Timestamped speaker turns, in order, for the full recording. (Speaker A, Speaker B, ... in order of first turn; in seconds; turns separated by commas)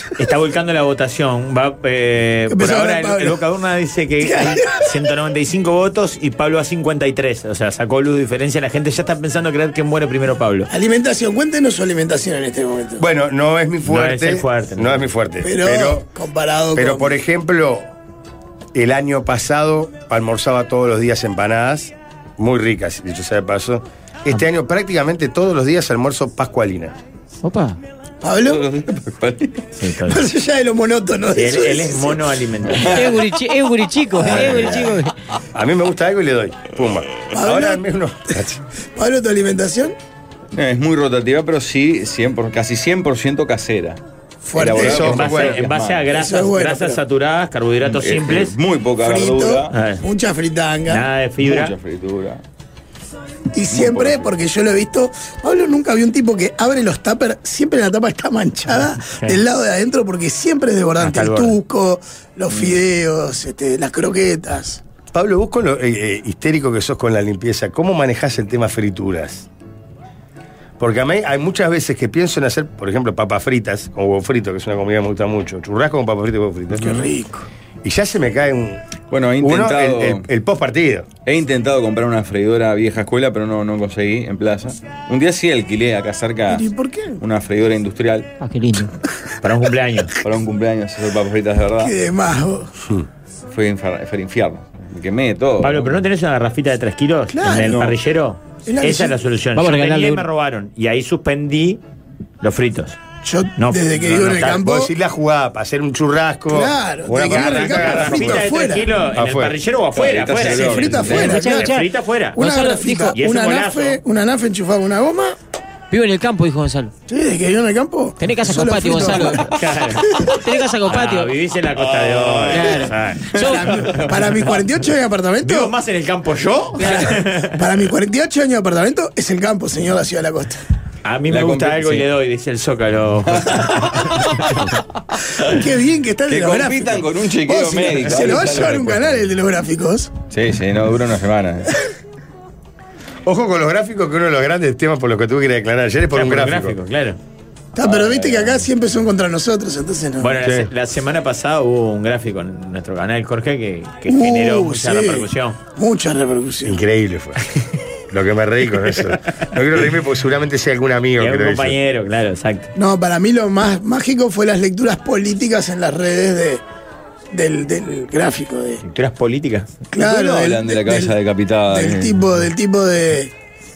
Speaker A: 0.2-10.7, Speaker B: 2.5-3.4, Speaker B: 4.2-4.9, Speaker B: 10.7-13.1, Speaker C: 13.0-16.0, Speaker A: 13.9-15.1, Speaker B: 15.4-17.2, Speaker C: 16.8-17.9, Speaker C: 18.7-26.9, Speaker D: 27.4-27.8, Speaker B: 28.2-28.7, Speaker E: 28.5-29.6, Speaker A: 29.8-30.2, Speaker B: 30.1-32.2, Speaker A: 31.4-33.1, Speaker E: 32.7-33.2, Speaker D: 32.9-35.1, Speaker E: 34.3-34.6, Speaker C: 35.5-38.6, Speaker B: 37.3-37.8, Speaker B: 39.0-40.0, Speaker E: 40.5-44.0, Speaker B: 44.5-45.1, Speaker E: 44.5-46.0, Speaker C: 44.7-45.6, Speaker A: 45.0-48.5, Speaker B: 46.1-47.0, Speaker E: 47.8-49.7, Speaker B: 49.0-51.1, Speaker A: 49.7-50.0, Speaker A: 50.9-51.7, Speaker E: 51.4-52.4, Speaker B: 53.5-64.8, Speaker E: 53.7-54.4, Speaker A: 61.0-61.6, Speaker E: 62.5-62.8, Speaker C: 65.1-69.5, Speaker C: 70.8-77.0, Speaker B: 76.8-77.5, Speaker E: 76.8-77.1, Speaker C: 77.8-78.8, Speaker E: 79.1-80.2, Speaker C: 79.4-81.1, Speaker E: 81.2-86.7, Speaker B: 86.5-87.2, Speaker E: 87.2-88.3, Speaker D: 88.4-88.9, Speaker A: 89.4-90.1, Speaker E: 90.2-91.9, Speaker B: 91.8-92.7, Speaker E: 93.5-96.0, Speaker A: 95.6-101.8, Speaker B: 97.3-97.8, Speaker E: 97.7-97.9, Speaker B: 98.7-99.2, Speaker D: 99.5-100.3, Speaker A: 102.4-103.0, Speaker B: 103.2-104.9, Speaker A: 103.6-104.6, Speaker C: 104.1-109.6, Speaker B: 106.5-108.9, Speaker A: 107.2-112.5, Speaker E: 110.0-111.4, Speaker B: 110.5-111.8, Speaker D: 111.1-113.2, Speaker B: 112.4-115.4, Speaker A: 113.1-114.0, Speaker D: 115.9-116.9, Speaker B: 117.1-119.5, Speaker D: 118.2-119.5, Speaker A: 119.2-120.3, Speaker B: 120.0-120.3, Speaker D: 120.3-121.3, Speaker A: 120.8-123.4, Speaker E: 122.1-122.6, Speaker D: 122.5-123.7, Speaker E: 123.4-124.0, Speaker B: 123.4-125.7, Speaker A: 125.4-127.6, Speaker B: 126.8-130.6, Speaker A: 131.1-134.5, Speaker E: 131.3-132.1, Speaker E: 133.3-134.6, Speaker B: 135.4-140.1, Speaker E: 136.3-139.2, Speaker E: 140.3-141.7, Speaker C: 143.3-146.8, Speaker A: 146.1-147.2, Speaker B: 147.8-150.4, Speaker A: 147.8-148.6, Speaker A: 150.2-155.6, Speaker C: 150.4-150.7, Speaker B: 154.1-156.8, Speaker C: 156.7-157.4, Speaker C: 158.1-161.8, Speaker A: 161.2-162.7, Speaker B: 162.8-166.6, Speaker B: 167.3-168.8, Speaker A: 168.8-169.7, Speaker B: 169.9-171.1, Speaker E: 170.0-172.2, Speaker B: 171.7-173.3